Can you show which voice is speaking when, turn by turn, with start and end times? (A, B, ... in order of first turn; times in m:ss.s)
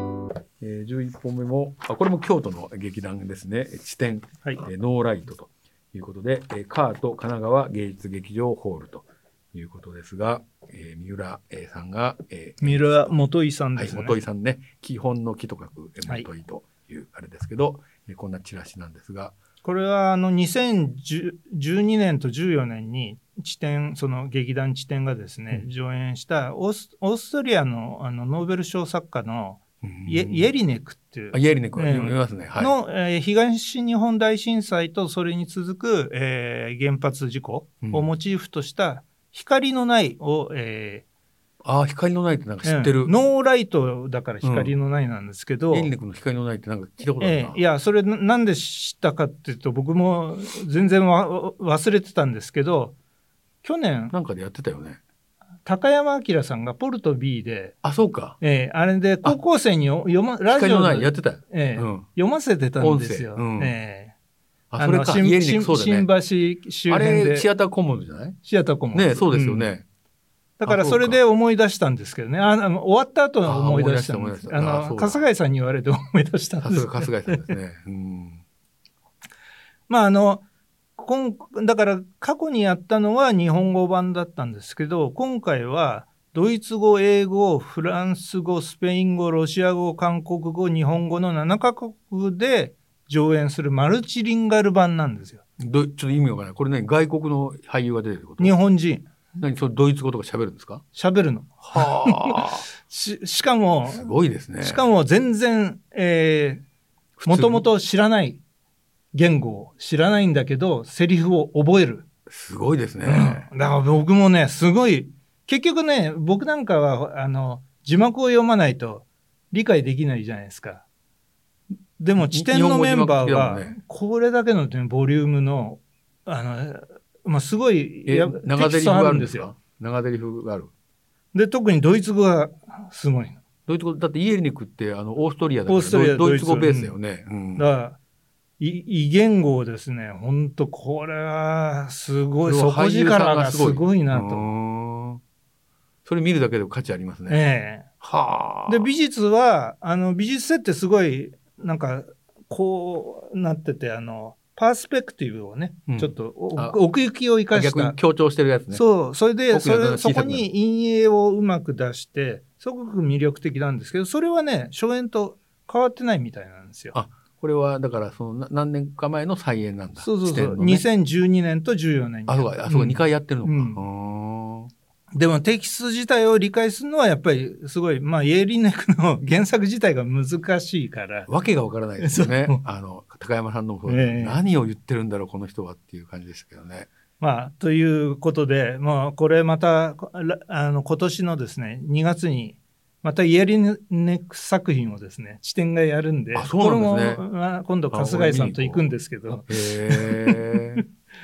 0:00.6-0:19.4 A
0:12.6-0:14.2 B
0:19.6-0:41.1 B
0:29.8-0:30.5 A
0:31.3-0:32.8 A
0:41.6-0:43.2 A
0:42.6-0:45.9 B
0:44.4-0:44.7 A
0:45.7-0:47.6 A
0:47.2-0:53.0 B
0:53.6-0:54.1 B
0:54.1-0:55.0 A
0:55.6-0:57.8 B
0:57.8-0:58.4 A
0:58.4-1:04.2 B
1:00.5-1:02.1 A
1:02.8-1:03.8 A
1:04.7-1:06.1 A
1:04.8-1:07.5 B
1:06.9-1:08.4 A
1:08.4-1:09.7 B
1:08.9-1:09.9 A
1:10.6-1:17.6 B
1:10.6-1:11.2 A
1:13.4-1:15.2 A
1:16.6-1:18.4 A
1:19.9-1:20.4 B
1:21.0-1:35.4 B
1:35.6-1:38.6 A
1:38.4-1:39.1 B
1:39.4-1:40.8 A
1:40.9-1:46.6 B
1:41.7-1:42.7 A
1:43.9-1:44.9 A
1:47.2-1:47.7 A
1:47.3-1:48.4 B
1:49.1-1:52.1 B
1:52.3-1:53.5 A
1:53.0-2:00.8 B
2:02.0-2:09.5 B
2:02.2-2:03.8 A
2:08.1-2:10.7 A
2:11.3-2:13.4 B
2:13.7-2:17.7 A
2:15.7-2:17.0 B
2:17.6-2:18.0 B
2:18.6-2:24.5 B
2:22.4-2:25.2 A
2:26.0-2:27.4 A
2:27.3-2:27.9 B
2:28.0-2:28.9 A
2:28.7-2:38.0 B
2:35.9-2:36.8 A
2:37.5-2:38.9 A
2:38.7-2:47.0 B
2:39.5-2:40.5 A
2:46.9-2:50.9 A
2:50.0-2:53.8 B
2:52.3-2:54.7 A
2:55.2-3:01.3 B
3:01.3-3:06.9 A
3:02.0-3:02.6 B
3:03.9-3:04.4 B
3:07.2-3:20.8 B
3:16.3-3:17.2 A
3:17.9-3:18.9 A
3:19.5-3:20.8 A